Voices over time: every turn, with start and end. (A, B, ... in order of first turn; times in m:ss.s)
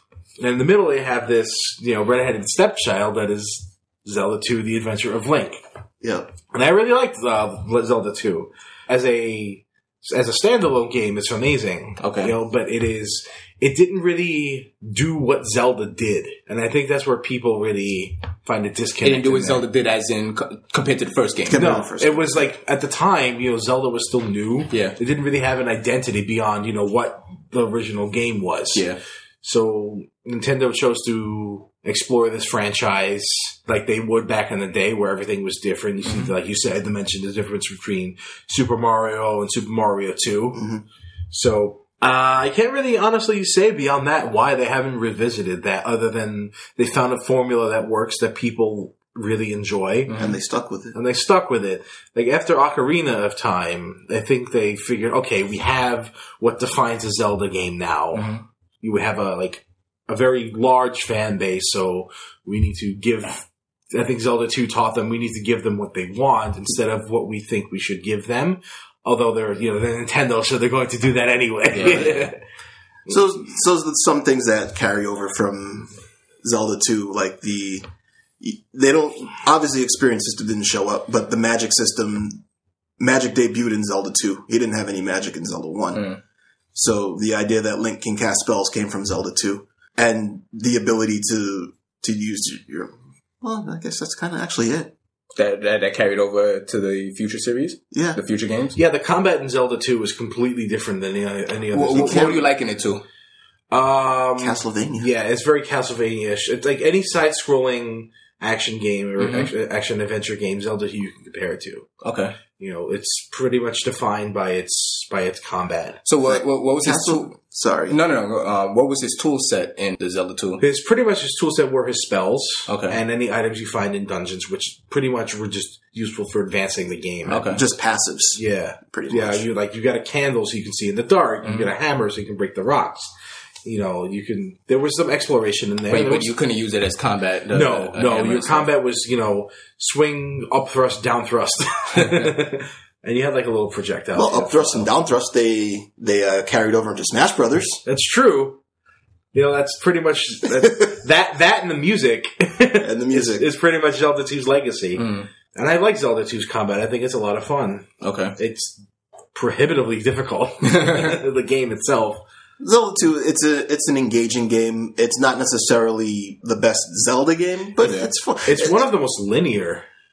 0:00.4-0:05.6 A
0:06.0-0:06.3 B
0:06.5-0:19.6 A
0:12.0-0:12.3 C
0:19.0-0:21.6 C
0:21.4-0:22.4 B
0:21.5-0:28.8 A
0:24.7-0:25.0 C
0:28.8-0:29.0 C
0:29.4-0:40.7 A
0:36.0-0:36.3 C
0:40.5-0:40.8 B
0:41.3-0:50.1 A
0:50.1-0:50.4 C
0:50.2-0:51.0 B
0:50.9-1:12.4 A
0:58.1-0:58.4 C
1:11.7-1:12.3 C
1:13.1-1:15.9 B
1:16.4-1:17.8 B
1:18.4-1:22.4 B
1:23.0-1:26.1 B
1:26.8-1:34.9 B
1:35.4-1:38.8 C
1:37.9-1:38.2 B
1:38.8-1:42.4 A
1:41.7-1:43.0 C
1:41.9-1:42.4 B
1:43.7-1:51.9 A
1:44.4-1:45.1 B
1:49.2-1:49.5 C
1:52.0-1:52.4 C
1:52.6-1:56.0 A
1:56.0-1:57.3 C
1:56.3-1:58.0 B
1:57.9-2:00.6 C
2:00.6-2:07.6 A
2:02.7-2:03.0 C
2:07.3-2:07.6 C
2:07.5-2:09.4 B
2:08.3-2:13.1 A
2:11.4-2:11.7 C
2:13.6-2:16.3 A
2:15.9-2:18.7 C
2:17.5-2:24.9 A
2:24.2-2:27.8 B
2:27.8-2:28.6 A
2:29.3-2:38.8 A
2:32.8-2:33.5 B
2:35.0-2:35.3 C
2:38.0-2:38.4 C
2:39.3-2:42.2 A
2:40.7-2:41.2 C
2:42.6-2:48.9 B
2:48.4-2:49.8 A